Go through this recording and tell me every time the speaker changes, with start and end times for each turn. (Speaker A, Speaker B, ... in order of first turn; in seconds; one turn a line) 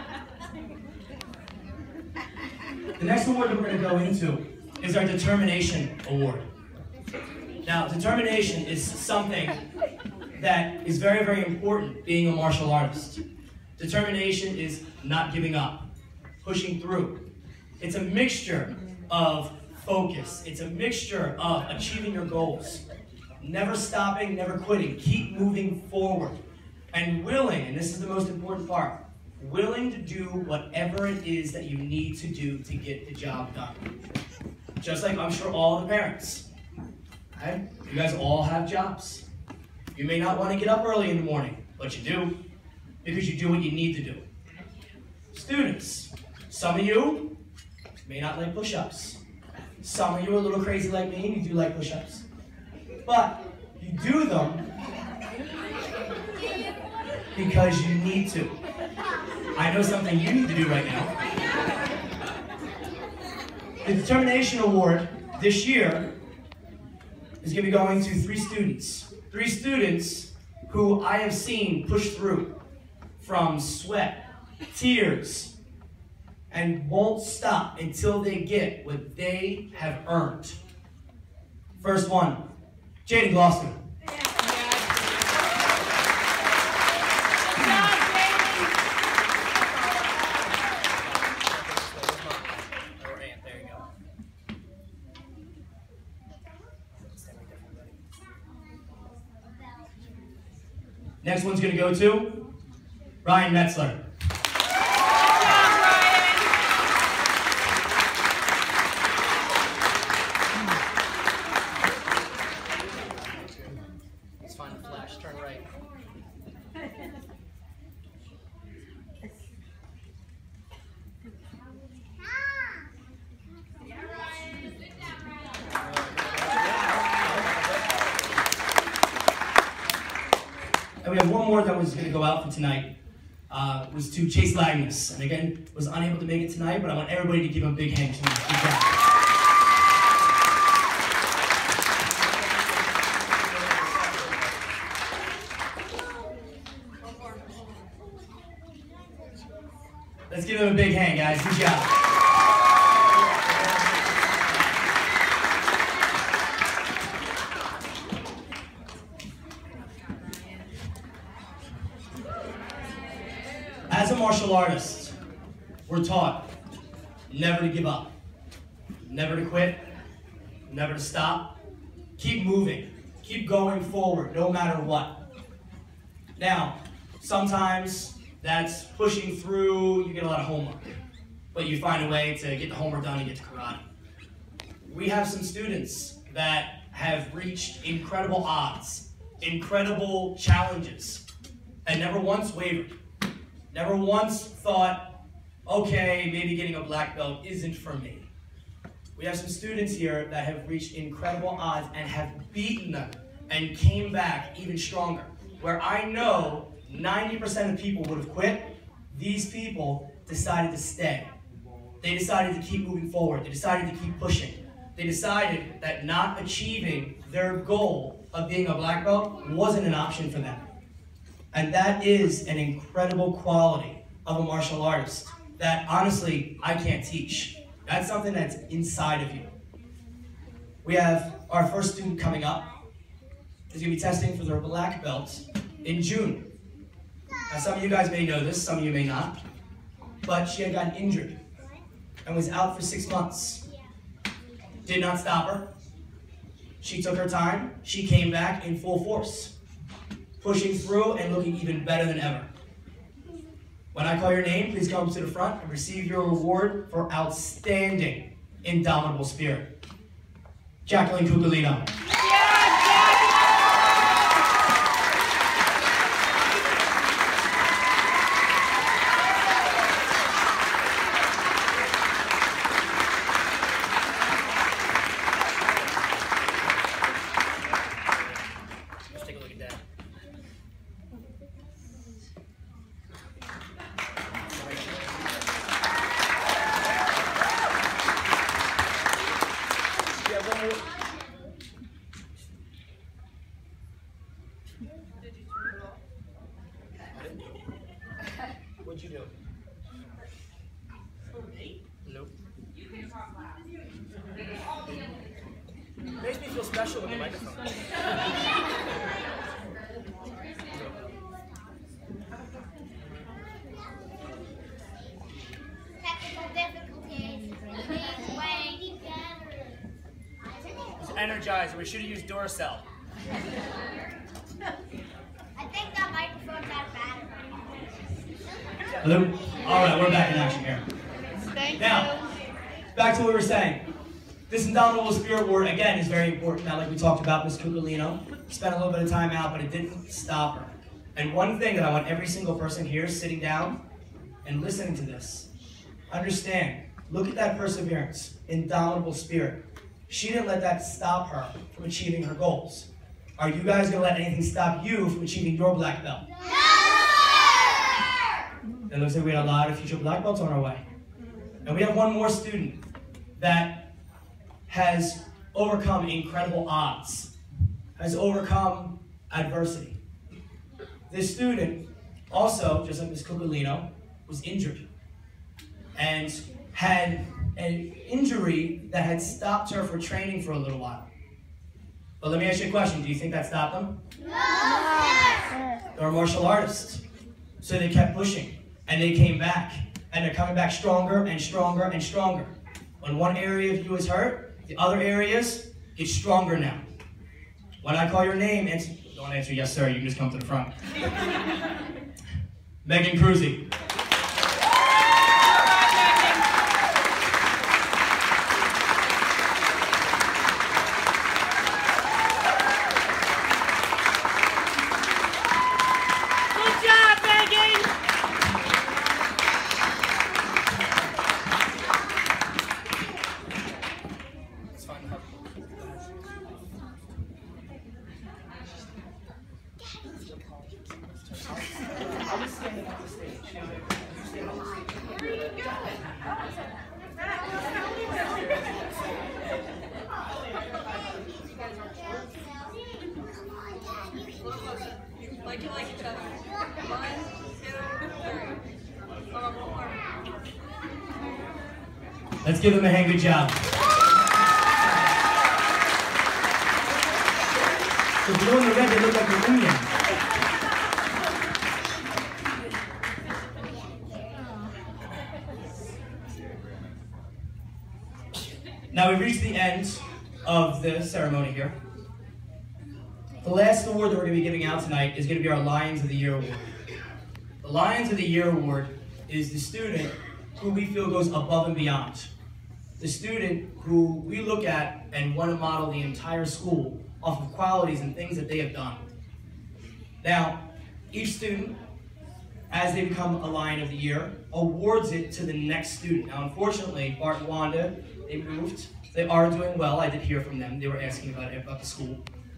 Speaker A: 3.0-6.5
Speaker A: 7.6-9.7
Speaker A: 10.4-13.2
Speaker A: 13.8-15.9
Speaker A: 16.4-17.2
Speaker A: 17.8-22.8
Speaker A: 23.4-26.4
Speaker A: 26.9-33.9
Speaker A: 34.8-36.5
Speaker A: 37.4-39.3
Speaker A: 39.9-42.4
Speaker A: 43.0-44.2
Speaker A: 45.3-47.4
Speaker A: 48.0-49.2
Speaker A: 49.8-52.2
Speaker A: 53.1-54.7
Speaker A: 57.4-58.5
Speaker A: 59.6-61.1
Speaker A: 63.8-66.1
Speaker A: 67.4-72.5
Speaker A: 73.2-75.5
Speaker A: 76.5-80.6
Speaker A: 81.8-82.5
Speaker A: 83.1-83.8
Speaker B: 84.2-85.5
Speaker B: 87.4-88.8
Speaker A: 91.3-93.9
Speaker A: 97.0-97.9
Speaker A: 101.2-102.5
Speaker A: 103.2-104.1
Speaker B: 105.3-106.5
Speaker A: 114.4-115.7
Speaker A: 126.1-127.4
Speaker A: 131.0-132.9
Speaker A: 133.5-139.0
Speaker A: 150.3-151.9
Speaker A: 163.9-165.2
Speaker A: 165.9-166.5
Speaker A: 167.3-168.1
Speaker A: 169.1-169.9
Speaker A: 170.7-171.6
Speaker A: 172.2-175.2
Speaker A: 176.4-181.0
Speaker A: 181.5-183.8
Speaker A: 184.9-191.2
Speaker A: 191.8-192.9
Speaker A: 193.7-198.3
Speaker A: 199.2-211.3
Speaker A: 212.0-220.6
Speaker A: 221.5-229.5
Speaker A: 230.8-232.7
Speaker A: 233.7-236.5
Speaker A: 237.5-239.4
Speaker A: 240.3-241.4
Speaker A: 242.2-243.6
Speaker A: 244.8-245.7
Speaker A: 246.8-249.6
Speaker A: 250.4-252.5
Speaker A: 253.9-259.7
Speaker A: 260.9-261.9
Speaker B: 262.1-263.5
Speaker A: 279.0-279.8
Speaker A: 290.2-290.8
Speaker A: 297.1-297.6
Speaker A: 298.8-299.3
Speaker A: 302.1-302.3
Speaker A: 306.2-307.7
Speaker A: 310.7-311.0
Speaker C: 316.0-319.9
Speaker C: 320.4-321.1
Speaker A: 321.0-322.9
Speaker C: 325.6-328.0
Speaker A: 329.0-330.9
Speaker B: 331.5-332.3
Speaker A: 331.8-332.1
Speaker A: 332.9-333.8
Speaker A: 334.5-343.8
Speaker A: 344.4-345.5
Speaker A: 346.1-356.3
Speaker C: 356.5-357.5
Speaker A: 358.9-360.8
Speaker A: 361.6-362.8
Speaker A: 363.4-363.9
Speaker A: 364.7-367.3
Speaker A: 368.0-370.0
Speaker A: 371.1-374.9
Speaker A: 375.9-381.1
Speaker A: 382.2-384.0
Speaker C: 384.6-385.3
Speaker A: 386.0-387.0
Speaker A: 387.6-396.8
Speaker A: 397.8-400.8
Speaker A: 402.8-403.7
Speaker B: 405.6-406.4
Speaker B: 416.5-417.9
Speaker A: 424.8-426.0
Speaker A: 432.3-433.4
Speaker A: 452.4-453.6
Speaker A: 458.2-459.9
Speaker A: 468.9-471.8
Speaker A: 473.4-476.7
Speaker A: 477.6-482.3
Speaker A: 483.0-489.1
Speaker A: 490.2-491.8
Speaker A: 492.7-502.2